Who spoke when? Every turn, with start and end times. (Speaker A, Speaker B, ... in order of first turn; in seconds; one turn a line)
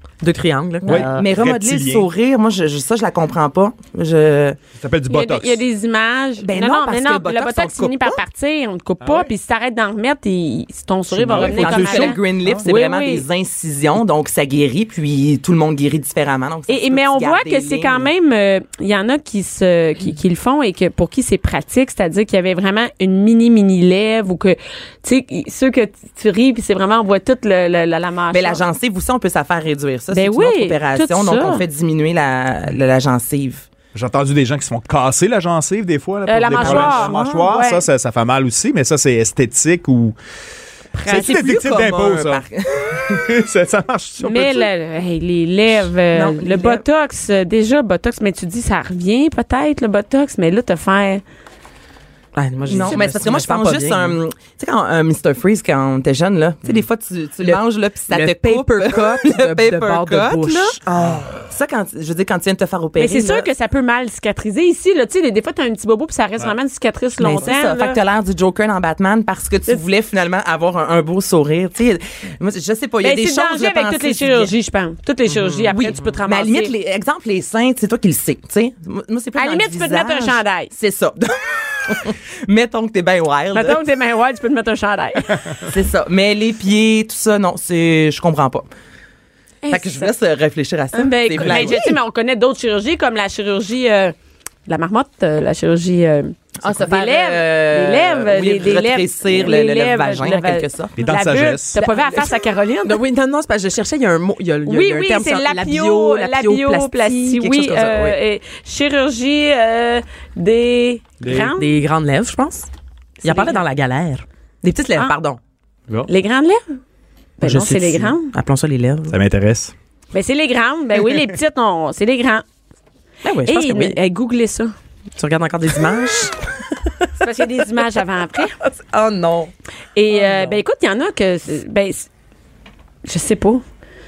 Speaker A: 0.2-1.2
Speaker B: 0.8-4.6
Speaker C: 0.9-2.1
Speaker C: 4.7-5.6
Speaker D: 5.1-13.2
Speaker B: 6.4-8.2
Speaker C: 9.0-9.3
Speaker B: 11.1-18.1
Speaker C: 11.3-12.6
Speaker D: 16.7-28.6
Speaker B: 28.3-33.7
Speaker D: 30.1-31.6
Speaker C: 33.9-40.1
Speaker D: 36.2-37.8
Speaker B: 36.5-37.5
Speaker B: 41.0-43.0
Speaker C: 41.0-42.4
Speaker C: 43.1-44.6
Speaker D: 44.2-51.2
Speaker B: 46.1-46.8
Speaker A: 52.3-54.2
Speaker B: 52.7-60.8
Speaker D: 52.7-53.0
Speaker A: 57.4-61.4
Speaker B: 61.5-63.5
Speaker D: 63.0-68.0
Speaker B: 67.2-74.5
Speaker D: 73.0-76.7
Speaker B: 75.4-83.8
Speaker D: 79.3-80.7
Speaker D: 83.5-85.4
Speaker B: 85.6-88.7
Speaker D: 89.6-90.1
Speaker B: 89.7-91.9
Speaker D: 90.9-94.1
Speaker C: 91.4-91.9
Speaker D: 94.7-103.0
Speaker B: 96.6-101.0
Speaker C: 101.0-101.8
Speaker A: 101.8-108.2
Speaker D: 104.7-111.7
Speaker C: 111.2-111.5
Speaker A: 111.3-112.7
Speaker A: 113.2-115.4
Speaker D: 113.2-113.6
Speaker D: 116.1-116.6
Speaker D: 117.4-118.3
Speaker A: 117.4-119.1
Speaker C: 119.1-119.7
Speaker D: 120.1-122.4
Speaker A: 123.2-124.0
Speaker D: 123.4-124.7
Speaker A: 125.2-126.5
Speaker A: 127.0-127.8
Speaker D: 127.2-128.6
Speaker A: 128.6-129.5
Speaker D: 129.9-132.1
Speaker A: 130.1-130.6
Speaker D: 133.0-133.6